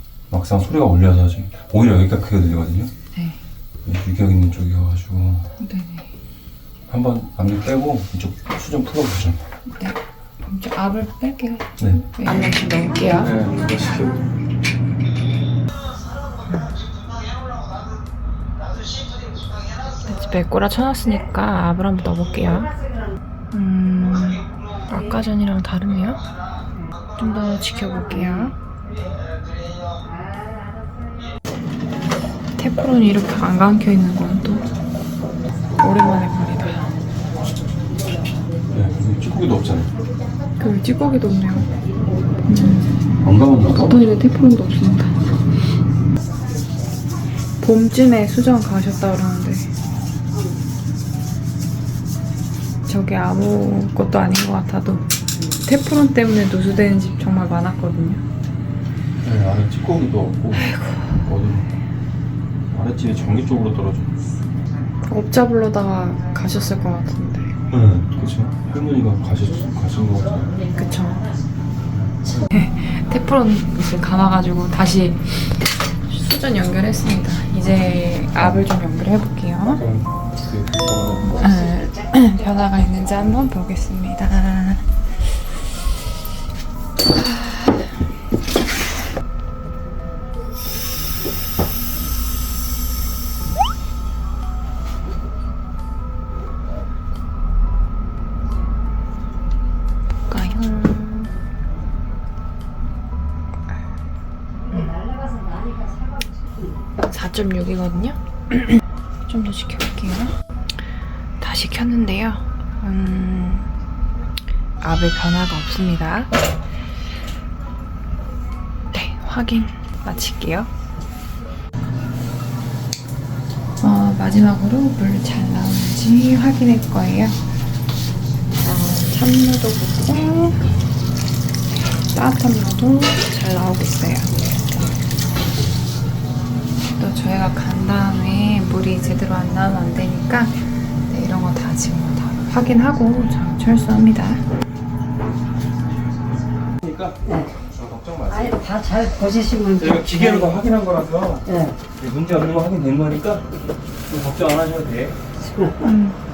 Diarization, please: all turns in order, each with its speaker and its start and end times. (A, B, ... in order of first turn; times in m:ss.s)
0:00.3-0:02.9 A
0:03.1-0:03.4 B
0:03.8-0:05.5 A
0:05.6-0:06.1 B
0:06.9-0:09.4 A
0:09.7-0:13.4 B
0:11.8-0:12.2 A
0:13.0-0:14.2 A
0:16.5-0:16.7 B
0:20.1-0:22.7 B
0:23.5-0:26.2 B
0:27.2-0:28.6 B
0:32.6-0:34.6 B
0:35.8-0:36.9 B
0:38.7-0:39.9 A
0:40.6-0:41.7 B
0:42.5-0:43.0 B
0:43.2-0:44.0 A
0:43.6-0:45.2 B
0:47.6-0:49.7 B
0:52.9-0:58.2 B
0:59.2-1:01.7 A
1:00.6-1:01.2 B
1:02.7-1:04.1 A
1:05.0-1:07.5 B
1:07.7-1:10.5 A
1:10.7-1:11.3 B
1:11.9-1:12.5 A
1:12.5-1:19.8 B
1:18.4-1:18.7 A
1:19.8-1:21.5 A
1:21.4-1:24.9 B
1:40.3-1:41.3 B
1:44.7-1:45.0 B
1:45.6-1:45.9 C
1:47.0-1:48.8 B
1:49.3-1:50.3 B
1:51.4-1:53.7 B
1:54.8-1:56.3 B
1:58.9-2:00.7 B
2:03.8-2:07.4 B
2:08.6-2:10.7 B
2:12.1-2:14.9 B
2:17.0-2:24.4 B
2:26.8-2:28.7 A
2:28.3-2:30.5 C
2:29.8-2:33.4 A
2:31.5-2:31.8 C
2:34.1-2:35.2 A
2:35.5-2:35.9 C
2:35.8-2:36.2 B